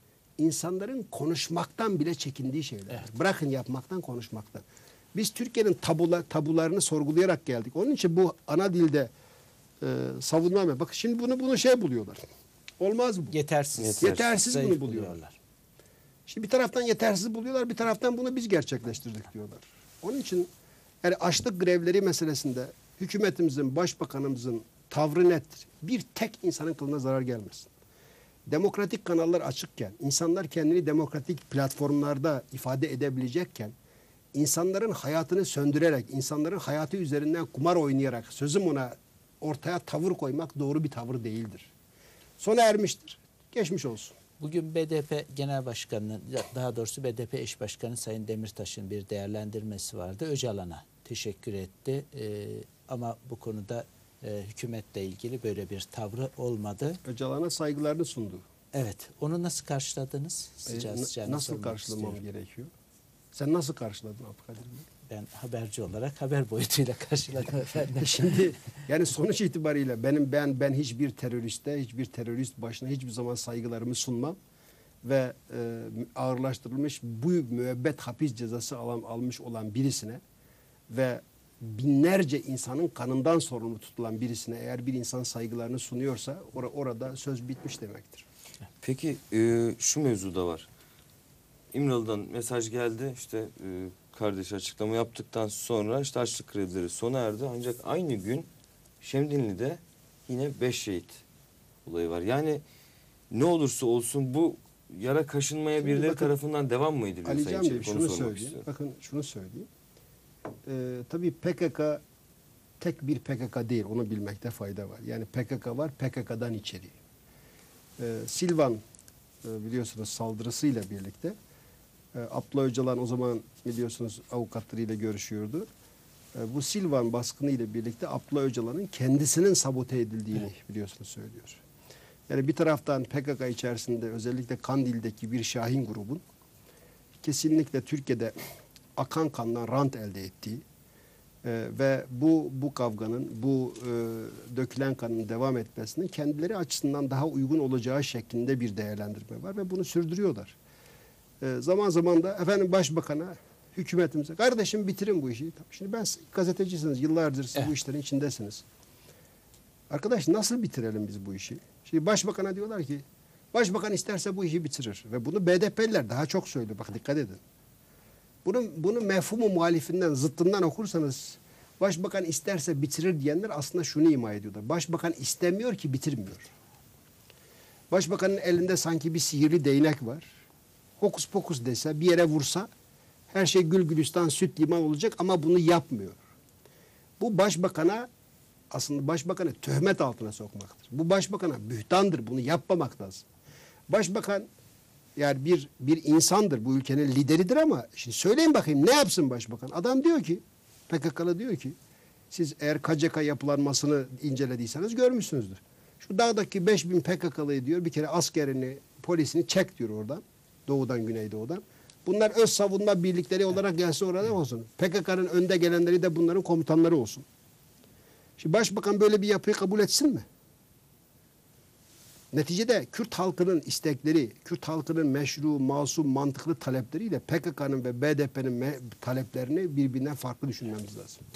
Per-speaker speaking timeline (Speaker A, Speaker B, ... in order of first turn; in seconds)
Speaker A: 0.4-9.1, 9.8-12.2, 12.8-13.3, 14.0-15.2, 16.3-20.5, 21.0-27.7, 28.5-33.8, 34.3-41.7, 42.4-44.2, 57.0-58.4, 60.7-62.7, 63.3-64.9, 68.0-74.4, 75.0-80.2, 80.9-88.3, 105.8-106.3, 107.2-109.7, 110.7-112.0, 112.8-117.0, 118.0-118.8, 119.4-121.4, 122.1-125.7, 126.3-131.6, 132.3-136.2, 137.2-138.3, 139.0-140.6, 141.4-150.6, 151.4-158.7, 159.9-167.4, 168.4-176.5, 177.9-180.3, 181.0-182.7, 183.3-186.2, 187.2-188.1, 188.7-193.3, 193.9-194.5, 195.2-201.8, 202.3-217.3, 218.4-220.3, 222.3-231.2
Speaker B: 13.3-15.4, 44.4-57.0, 58.7-62.2, 65.1-68.4
Speaker C: 13.8-14.3, 88.8-90.7, 91.7-98.5, 99.0-101.2, 101.8-102.6, 103.3-108.6